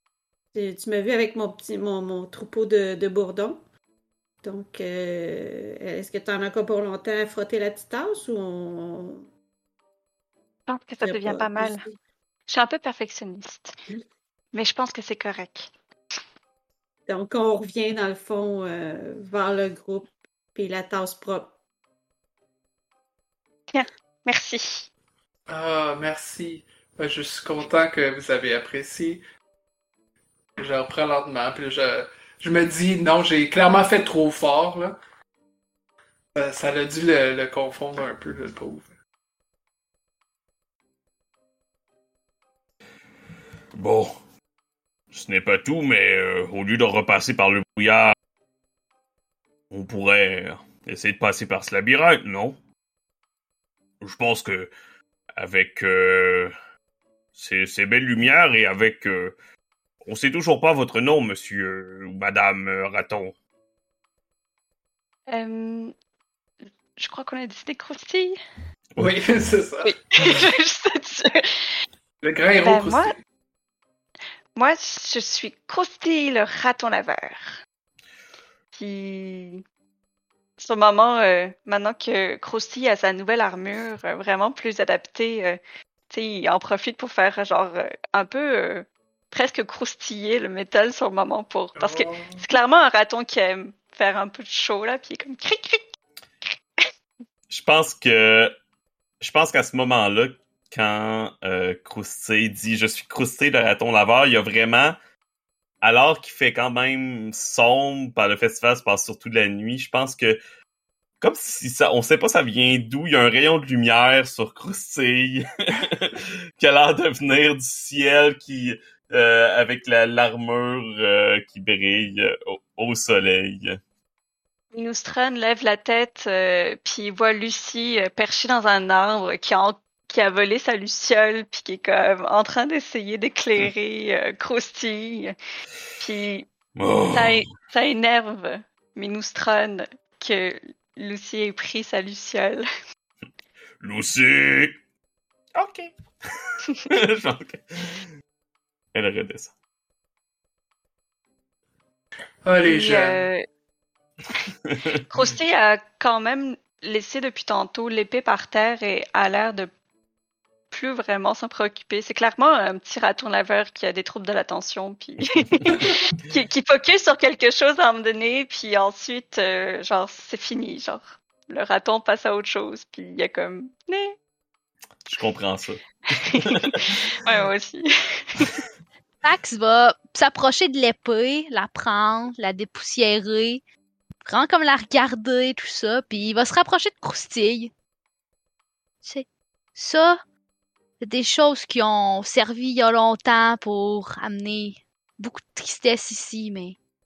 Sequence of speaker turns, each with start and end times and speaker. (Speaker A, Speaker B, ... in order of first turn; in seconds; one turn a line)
Speaker A: 0.5-3.6
Speaker A: 4.4-9.3
Speaker B: 10.7-11.8
Speaker A: 11.0-12.0
Speaker B: 12.5-13.8
Speaker B: 14.5-15.7
Speaker A: 17.1-21.5
Speaker B: 23.7-24.9
Speaker C: 25.5-29.2
Speaker C: 30.6-35.0
Speaker C: 36.3-38.9
Speaker D: 43.8-44.1
Speaker D: 45.1-48.1
Speaker D: 49.7-52.6
Speaker D: 54.0-54.7
Speaker D: 55.4-56.5
Speaker D: 57.4-59.3
Speaker D: 60.0-63.3
Speaker B: 65.3-65.9
Speaker B: 67.0-68.4
Speaker C: 69.0-70.4
Speaker B: 69.8-71.7
Speaker C: 72.2-73.2
Speaker B: 72.6-73.1
Speaker B: 74.5-77.6
Speaker B: 78.7-79.6
Speaker B: 80.6-85.6
Speaker B: 86.1-95.8
Speaker C: 91.8-92.4
Speaker D: 97.5-98.5
Speaker D: 99.2-105.0
Speaker D: 105.8-110.4
Speaker D: 111.2-123.8
Speaker B: 124.7-135.3
Speaker B: 136.0-136.5
Speaker D: 136.8-137.4
Speaker B: 137.1-142.6
Speaker D: 143.8-144.8
Speaker D: 145.5-148.1
Speaker D: 148.9-149.5
Speaker C: 152.4-153.3
Speaker B: 152.6-153.4
Speaker D: 154.7-155.0
Speaker B: 155.1-159.7
Speaker B: 160.7-174.2
Speaker D: 175.1-177.0
Speaker B: 176.2-178.6
Speaker E: 179.2-183.6
Speaker E: 184.2-187.7
Speaker E: 189.0-190.2
Speaker E: 191.0-196.8